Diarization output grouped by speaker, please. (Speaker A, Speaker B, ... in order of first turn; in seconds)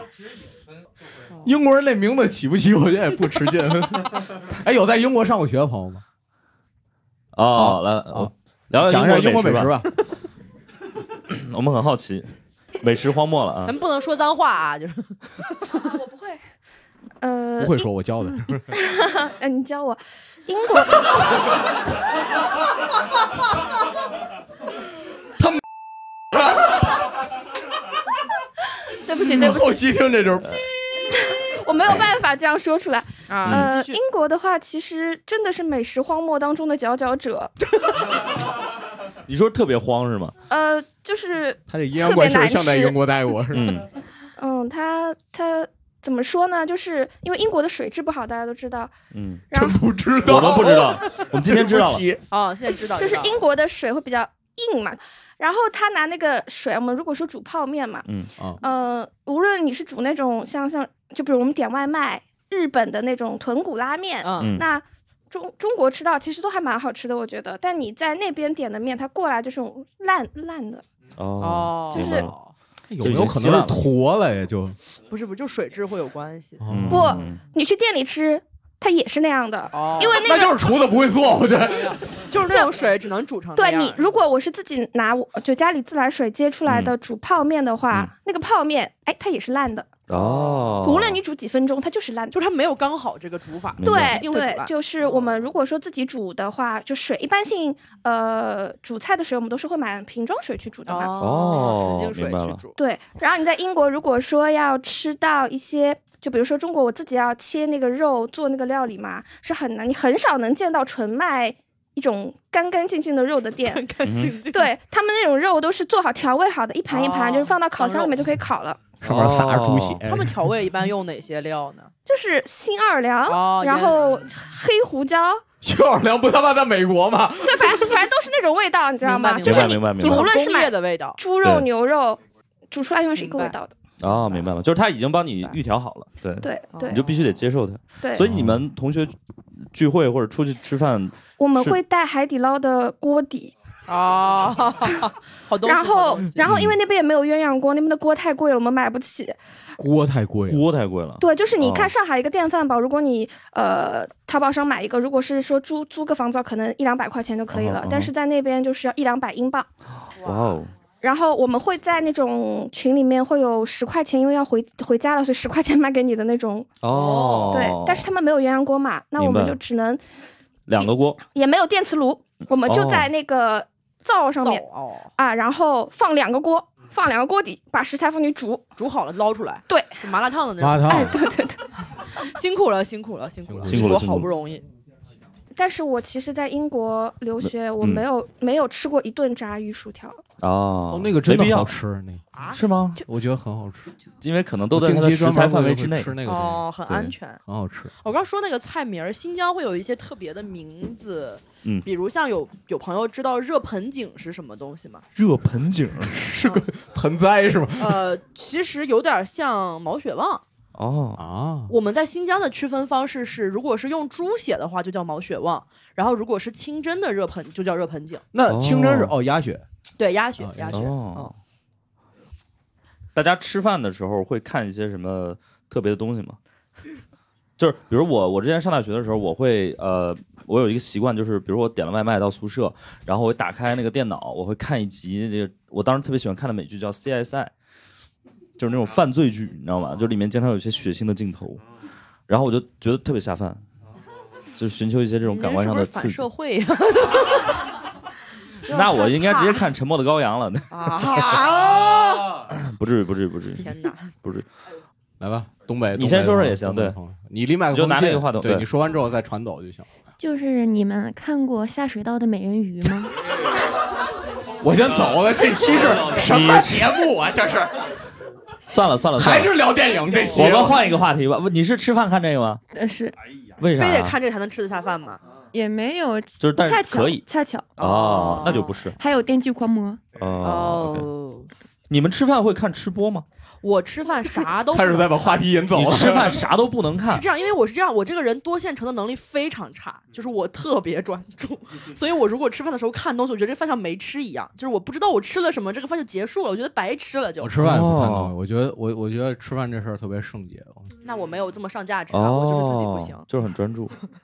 Speaker A: 1.4-6.0, 7.5-9.9, 17.6-18.7, 29.2-30.6, 41.7-43.8, 49.5-52.2, 72.9-74.8, 76.6-77.2, 80.2-82.1, 119.0-120.4, 125.6-128.0, 149.8-150.6, 180.6-181.1, 183.5-184.0, 190.9-192.2, 193.0-193.9, 194.7-196.6, 197.5-197.9, 206.1-208.0, 211.2-211.7, 218.3-219.6, 220.4-220.8, 255.2-259.9, 264.6-267.7, 269.2-270.8, 284.7-286.4, 297.4-300.9
Speaker B: 7.3-9.8, 11.3-12.3, 12.8-13.8, 33.5-33.7, 39.3-40.3, 43.5-43.9, 49.1-49.5, 50.2-52.1, 64.4-64.7, 71.2-72.4, 73.0-73.9, 76.7-77.4, 86.7-87.0, 90.1-91.2, 93.8-94.3, 101.2-102.6, 114.0-114.4, 119.0-120.0, 129.4-130.3, 131.4-131.7, 134.0-139.1, 139.7-141.8, 146.4-146.7, 150.5-151.9, 157.5-158.1, 160.2-160.7, 166.8-168.1, 169.2-169.6, 170.7-171.2, 172.7-173.1, 183.7-184.3, 187.4-188.1, 190.4-191.8, 192.5-193.0, 194.2-196.2, 196.9-197.1, 205.2-206.2, 210.8-211.2, 218.5-219.1, 220.7-221.3, 223.2-226.4, 227.6-237.5, 238.6-241.6, 242.3-243.6, 244.6-246.3, 248.7-251.4, 252.5-254.4, 255.9-257.0, 257.7-258.7, 266.1-267.1, 268.7-269.6, 270.3-272.6, 273.6-274.2, 276.4-277.2, 277.8-278.9, 280.2-281.1, 281.9-283.2, 285.7-287.3, 297.6-298.3, 302.1-303.9
Speaker C: 13.7-15.2, 33.3-34.0, 52.3-53.4, 64.2-64.6, 71.4-72.5, 75.0-76.6, 79.7-80.4, 81.7-84.1, 90.1-90.8, 92.3-95.1, 100.9-102.7, 113.7-114.7, 116.9-118.2, 120.0-121.9, 123.3-124.0, 129.0-131.2, 133.2-133.6, 136.7-137.0, 143.9-146.4, 166.9-167.7, 174.4-175.1, 178.8-181.2, 182.3-184.7, 196.2-197.4, 198.0-205.1, 207.8-210.4, 211.7-218.2, 220.0-221.3, 245.2-247.6, 248.7-249.7, 250.7-252.4, 253.6-254.1, 270.1-270.8, 273.7-275.2, 277.8-278.9, 280.4-281.5, 283.6-285.5, 287.1-297.6, 301.0-303.3
Speaker D: 15.8-16.4, 17.2-17.9, 18.7-21.4, 29.1-29.9, 31.1-37.5, 40.5-43.0, 44.4-48.9, 49.5-49.8, 53.0-58.0, 58.6-70.8, 71.9-72.3, 76.9-80.6, 82.5-82.7, 83.6-90.0, 90.8-92.4, 93.8-101.1, 102.8-113.9, 114.5-119.0, 122.1-125.4, 127.5-133.7, 136.4-137.1, 138.0-138.3, 141.4-143.5, 145.6-149.4, 151.2-159.7, 161.0-166.8, 167.5-170.0, 170.8-174.6, 175.2-178.7, 179.7-180.1, 180.9-181.7, 185.6-190.2
Speaker E: 260.2-263.1, 272.7-273.1, 275.5-277.7, 279.0-280.0